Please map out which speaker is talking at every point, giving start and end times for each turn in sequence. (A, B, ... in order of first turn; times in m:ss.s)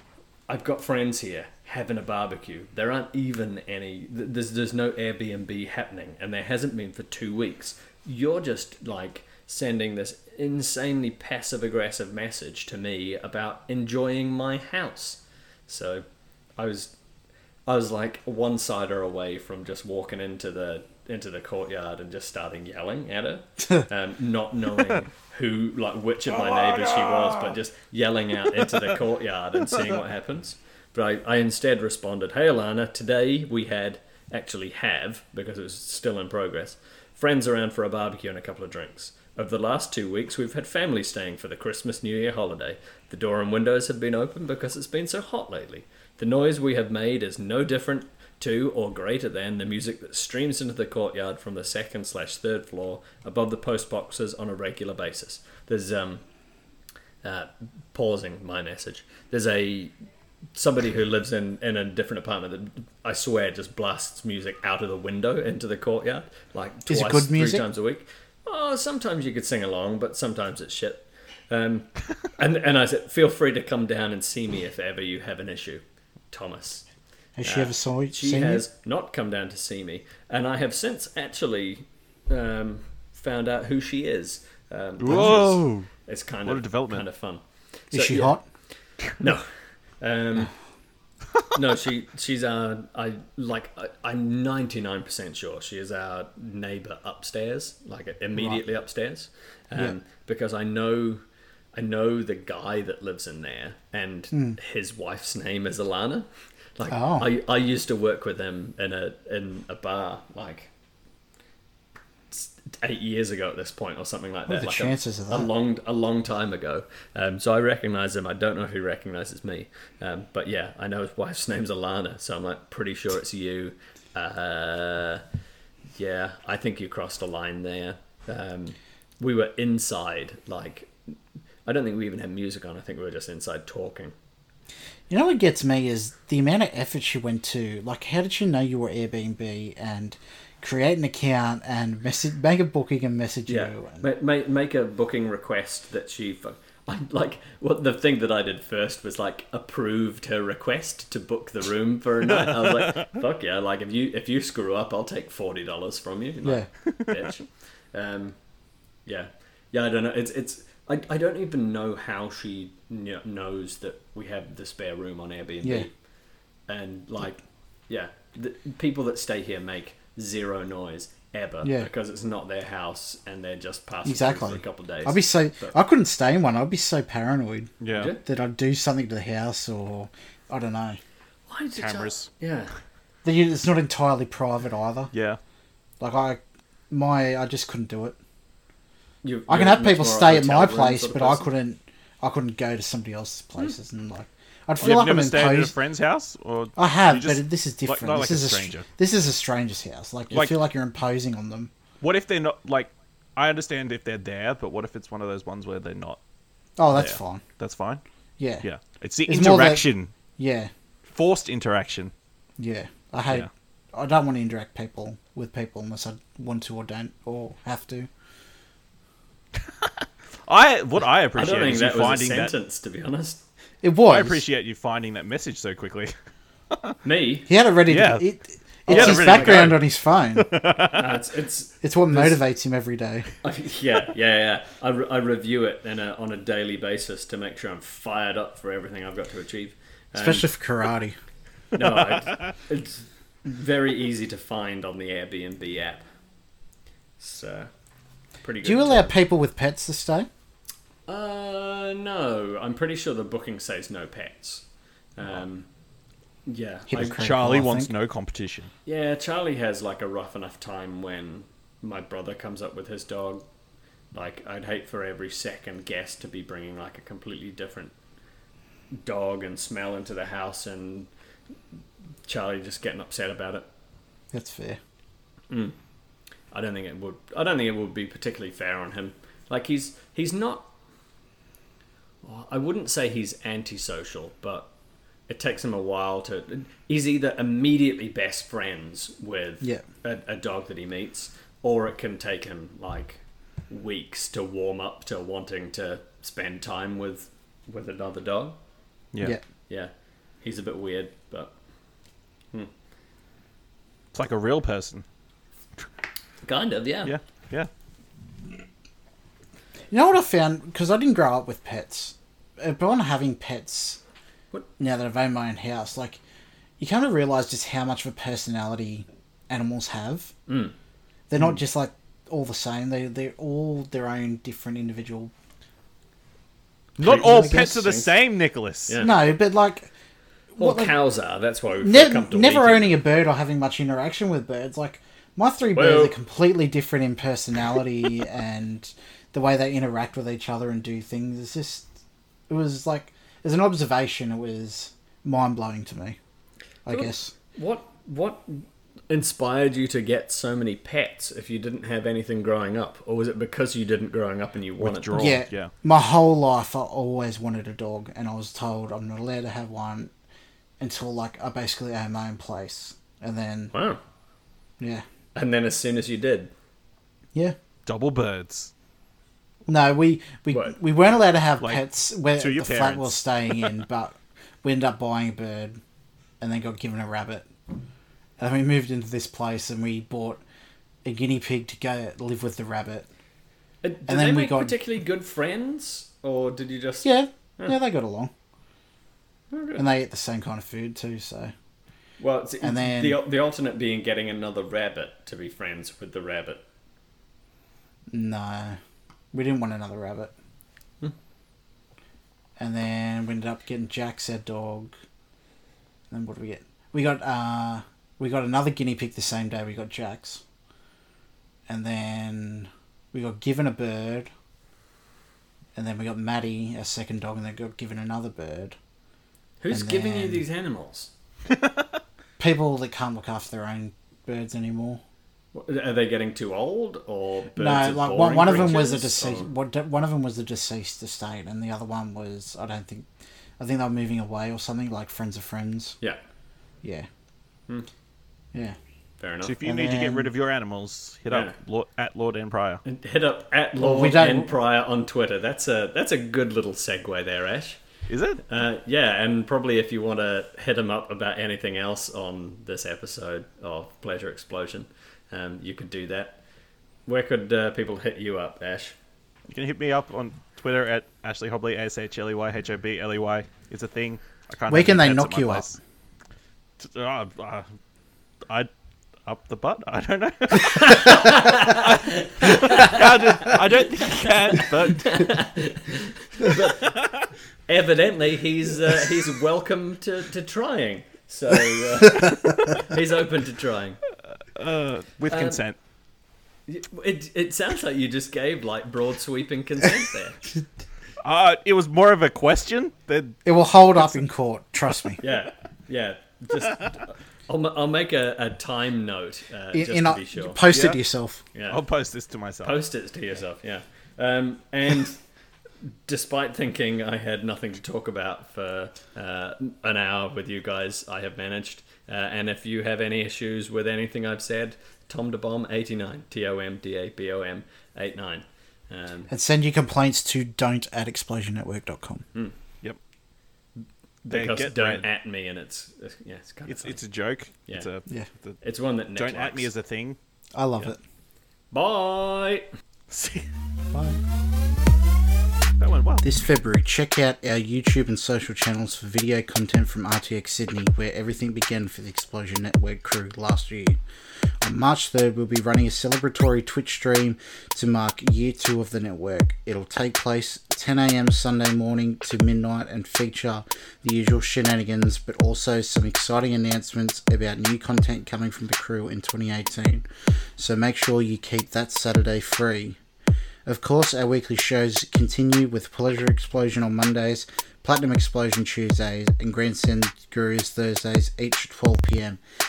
0:00.5-0:16.0 A
0:16.6-0:16.9 A
0:17.6-0:56.2 A
0:26.4-0:27.4 B
0:57.2-0:59.9 A
1:00.5-1:16.8 A
1:06.9-1:07.7 C
1:17.4-1:18.6 C
1:17.4-1:28.4 A
1:25.0-1:25.9 B
1:26.4-1:27.0 B
1:27.9-1:28.4 C
1:29.2-1:29.4 A
1:30.0-1:30.5 A
1:31.5-1:41.2 A
1:41.7-1:50.7 A
1:44.3-1:44.6 C
1:46.9-1:47.3 C
1:52.3-2:05.2 A
1:54.5-1:55.5 C
2:06.0-2:10.9 A
2:11.6-2:14.1 A
2:15.1-2:24.0 C
2:23.5-2:38.3 A
2:32.3-2:33.0 B
2:39.0-2:45.9 A
2:46.7-2:55.8 A
2:51.6-2:51.9 C
2:54.0-3:01.0 C
2:57.8-2:58.1 B
2:57.9-2:58.2 A
3:01.5-3:02.7 A
3:01.8-3:02.3 B
3:03.2-3:05.1 C
3:05.1-3:05.4 B
3:06.0-3:08.2 C
3:09.2-3:11.5 A
3:09.5-3:15.7 C
3:14.8-3:18.9 B
3:16.8-3:21.7 C
3:20.3-3:20.6 B
3:22.0-3:26.2 B
3:26.8-3:27.4 C
3:26.9-3:28.0 B
3:28.4-3:28.6 C
3:28.6-3:30.1 B
3:29.2-3:30.7 C
3:31.1-3:32.1 B
3:32.6-3:38.1 C
3:40.4-3:42.5 B
3:41.4-3:43.4 A
3:43.8-3:44.4 C
3:44.1-3:46.1 B
3:46.7-3:47.0 B
3:47.0-3:47.5 A
3:47.5-3:50.5 C
3:47.9-3:48.2 B
3:48.9-3:51.2 B
3:48.9-3:49.8 A
3:50.9-3:52.4 A
3:51.8-3:53.3 C
3:53.4-4:00.5 A
4:00.2-4:01.2 C
4:01.7-4:06.0 A
4:07.2-4:07.7 A
4:08.4-4:09.1 A
4:08.6-4:10.3 C
4:11.1-4:14.6 A
4:15.2-4:15.7 A
4:16.5-4:17.1 A
4:16.9-4:17.9 C
4:17.0-4:18.7 B
4:18.8-4:23.4 A
4:24.1-4:27.9 A
4:28.9-4:31.1 A
4:32.2-4:33.6 A
4:34.3-4:34.8 C
4:35.5-4:35.7 A
4:36.5-4:40.7 A
4:42.2-4:44.7 A
4:45.3-4:58.6 A
4:59.7-5:01.5 A
5:04.1-5:05.0 B
5:06.4-5:07.2 A
5:07.0-5:07.7 B
5:09.9-5:14.0 C
5:14.8-5:16.2 C
5:16.8-5:20.3 C
5:20.5-5:20.7 A
5:21.3-5:25.3 C
5:27.0-5:29.0 B
5:27.0-5:28.1 A
5:27.0-5:27.7 C
5:28.9-5:29.2 A
5:29.0-5:29.9 C
5:30.6-5:30.9 C
5:30.6-5:33.0 A
5:31.8-5:41.9 C
5:35.7-5:36.2 A
5:42.5-5:46.2 C
5:46.8-5:47.3 C
5:46.9-5:55.3 A
5:54.8-5:55.7 B
5:55.1-6:00.1 C
6:00.8-6:03.7 C
6:03.7-6:04.0 A
6:05.3-6:06.5 A
6:07.8-6:08.7 B
6:09.6-6:15.8 C
6:11.6-6:13.7 B
6:16.4-6:17.4 C
6:18.4-6:20.4 C
6:21.0-6:23.1 C
6:23.8-6:27.8 A
6:24.1-6:24.8 C
6:27.0-6:28.3 C
6:29.5-6:29.8 A
6:29.8-6:31.5 C
6:32.2-6:36.6 A
6:32.6-6:33.2 C
6:38.1-6:38.8 C
6:39.3-6:40.3 C
6:42.6-6:44.9 C
6:46.1-6:50.4 C
6:51.7-6:54.3 C
6:55.7-6:58.8 C
6:59.6-7:01.1 A
6:59.7-7:00.4 C
7:02.4-7:05.0 C
7:05.5-7:09.5 A
7:07.6-7:13.0 C
7:13.6-7:16.0 C
7:16.8-7:17.1 C
7:19.2-7:19.6 A
7:19.4-7:22.8 B
7:19.6-7:20.3 C
7:21.3-7:21.6 A
7:22.8-7:27.8 A
7:23.8-7:24.5 C
7:28.1-7:28.4 B
7:28.4-7:36.4 A
7:37.0-7:39.0 A
7:39.5-7:45.8 B
7:44.7-7:45.8 C
7:46.8-7:47.6 B
7:49.2-7:55.3 B
7:50.6-7:53.5 A
7:54.9-7:57.1 A
7:56.8-7:57.2 B
7:57.7-8:04.0 A
8:04.5-8:05.8 B
8:05.3-8:05.6 A
8:06.7-8:10.4 A
8:11.2-8:13.4 B
8:13.4-8:15.2 C
8:15.2-8:20.6 A
8:19.7-8:21.4 C
8:20.7-8:21.0 B
8:21.5-8:21.8 A
8:21.7-8:22.8 B
8:22.6-8:25.2 A
8:26.1-8:39.3 A
8:39.3-8:42.2 C
8:44.2-8:47.0 A
8:44.3-8:45.0 B
8:46.7-8:48.6 B
8:48.6-8:49.7 A
8:49.2-8:50.2 B
8:50.5-8:51.0 C
8:51.7-8:52.7 A
8:53.1-8:53.5 B
8:53.9-8:54.2 C
8:55.8-8:56.3 B
8:56.2-9:04.0 C
9:04.6-9:20.0 C
9:20.6-9:23.0 C
9:23.6-9:32.4 C